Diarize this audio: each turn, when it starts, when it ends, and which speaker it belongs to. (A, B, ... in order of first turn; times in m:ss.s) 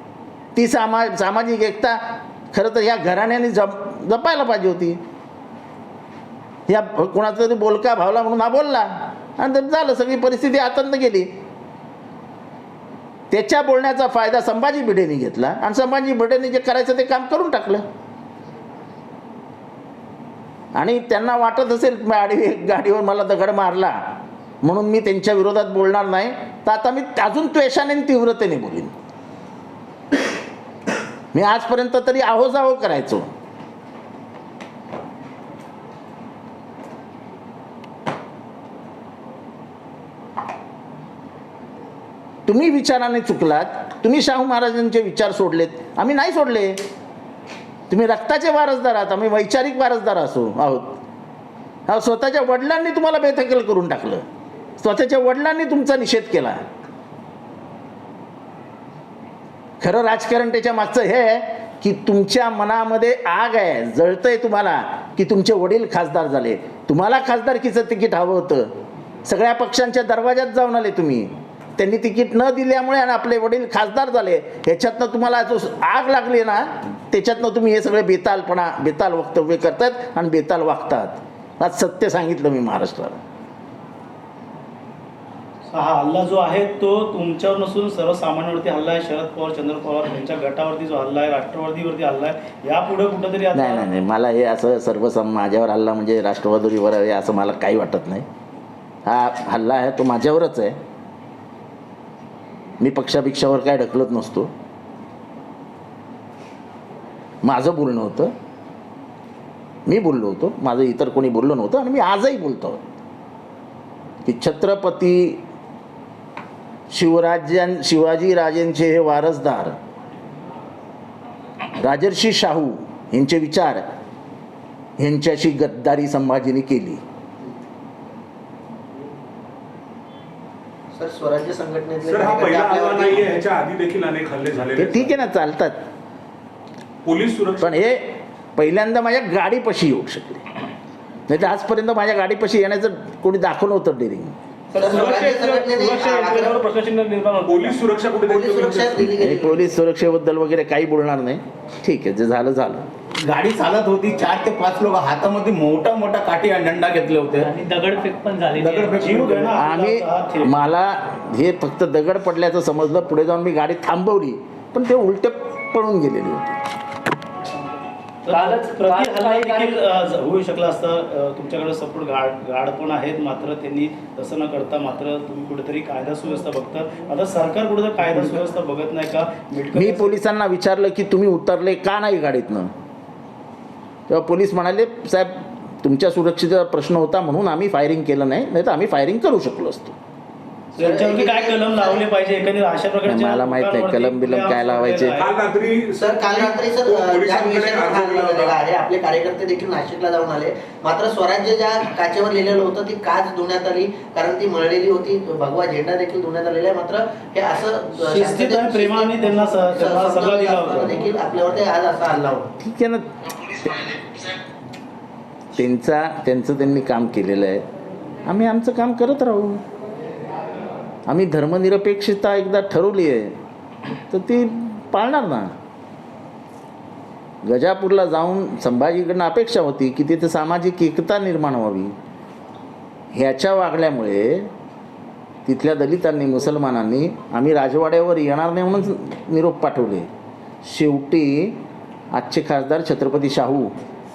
0:00.5-0:05.0 A
0:06.7-0:11.3 A
0:13.3-0:17.8 A
0:20.7-0:28.9 A
0:31.3-0:33.3 A
0:42.4-0:46.8 A
0:47.9-0:51.0 A
0:51.9-0:54.2 A
0:54.8-0:56.6 A
0:59.8-1:08.7 A
1:09.2-1:23.2 A
1:25.7-1:33.8 B
1:33.5-1:38.2 A
1:39.0-1:40.8 A
1:42.8-1:44.5 A
1:47.4-1:48.3 A
1:49.9-1:52.8 A
1:54.2-1:55.4 A
1:56.9-1:59.8 A
2:01.8-2:03.8 A
2:05.0-2:07.0 A
2:10.9-2:13.3 C
2:12.0-2:15.1 D
2:14.8-2:15.8 A
2:17.0-2:17.8 D
2:17.6-2:20.5 A
2:21.3-2:24.4 A
2:24.7-2:27.8 B
2:24.7-2:26.6 C
2:27.4-2:29.1 D
2:28.2-2:29.6 C
2:29.2-2:32.8 A
2:33.2-2:37.5 E
2:37.4-2:39.3 F
2:38.6-2:39.5 E
2:38.6-2:40.5 B
2:39.5-2:46.6 A
2:48.2-3:00.1 B
2:48.3-2:49.8 F
2:59.7-3:02.7 A
3:04.1-3:10.0 A
3:10.8-3:12.0 C
3:10.8-3:15.3 B
3:13.0-3:15.2 A
3:15.2-3:18.6 D
3:15.9-3:32.5 C
3:28.0-3:31.1 B
3:32.6-3:34.2 A
3:35.5-3:37.6 A
3:38.2-3:39.6 A
3:41.1-3:43.3 A
3:44.1-3:45.5 A
3:47.4-3:51.9 A
3:53.1-3:54.5 A
3:55.4-4:00.1 A
4:00.6-4:01.6 A
4:02.1-4:03.7 A